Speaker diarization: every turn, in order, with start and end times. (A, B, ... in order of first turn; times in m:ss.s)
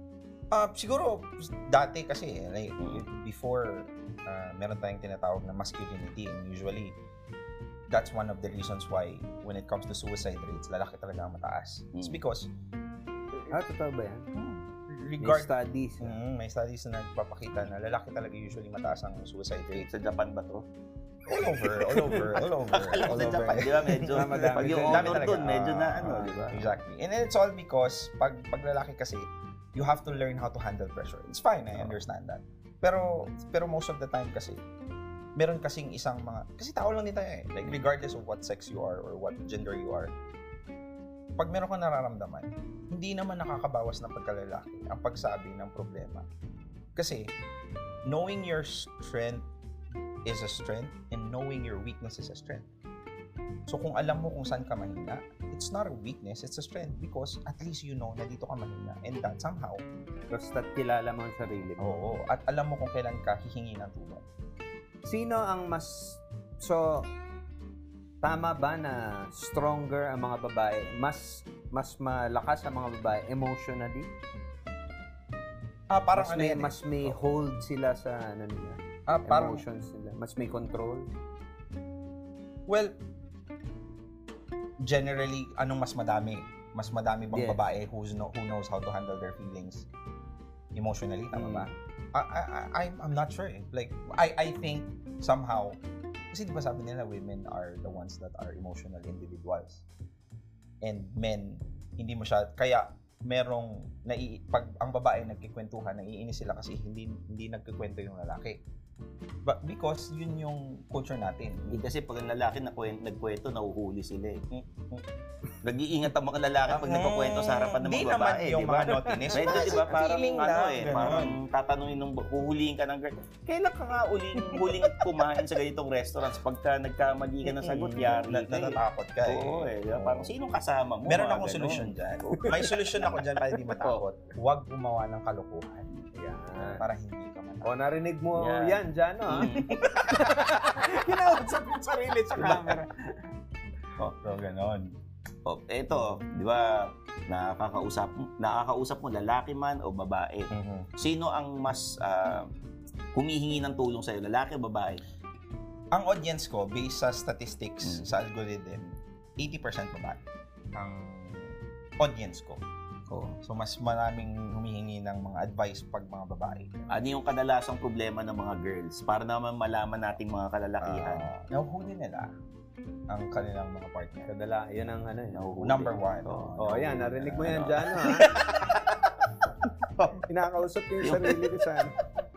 0:00.5-0:07.0 A
0:02.8-0:03.0 B
0:07.9-0:12.5 A
0:11.9-0:12.2 B
0:13.5-0:14.3 C
0:14.3-0:19.9 A
0:15.2-0:16.2 C
0:19.8-0:20.6 B
0:21.3-0:34.6 A
0:21.6-0:22.4 C
0:22.7-0:26.7 B
0:24.1-0:25.4 C
0:26.0-0:26.5 C
0:35.4-0:40.1 A
0:41.4-0:46.2 A
0:47.0-0:47.3 A
0:48.0-0:49.5 A
0:50.2-0:52.7 A
0:53.7-0:59.8 A
1:00.3-1:01.9 C
1:01.8-1:04.2 A
1:05.0-1:07.1 C
1:08.2-1:14.1 C
1:15.9-1:17.2 A
1:16.1-1:21.1 C
1:19.1-1:19.6 A
1:22.7-1:22.9 A
1:24.8-1:29.9 A
1:27.3-1:27.6 C
1:30.7-1:35.8 A
1:31.3-1:31.7 C
1:36.3-1:39.8 A
1:40.8-1:48.6 A
1:49.4-1:51.8 A
1:51.7-1:54.4 B
1:54.5-1:55.0 A
1:55.6-2:12.7 B
1:56.7-2:01.4 A
1:59.2-1:59.8 C
2:07.4-2:10.3 A
2:11.0-2:15.9 A
2:13.8-2:14.0 B
2:16.1-2:16.8 C
2:16.8-2:17.7 A
2:17.6-2:19.5 C
2:18.4-2:19.9 B
2:19.6-2:20.9 A
2:20.0-2:23.1 C
2:22.3-2:22.8 A
2:24.0-2:24.9 A
2:25.4-2:32.5 B
2:30.5-2:30.9 A
2:33.1-2:35.0 B
2:35.9-2:40.2 A
2:37.8-2:38.1 B
2:40.7-2:42.6 A
2:43.4-2:47.0 A
2:46.9-2:51.3 B
2:50.8-2:52.3 A
2:53.1-2:54.3 A
2:54.3-2:55.5 C
2:55.3-2:58.1 B
2:55.6-2:56.8 A
2:56.6-2:58.3 C
2:58.0-2:58.8 A
3:00.2-3:01.9 C
3:01.0-3:01.4 B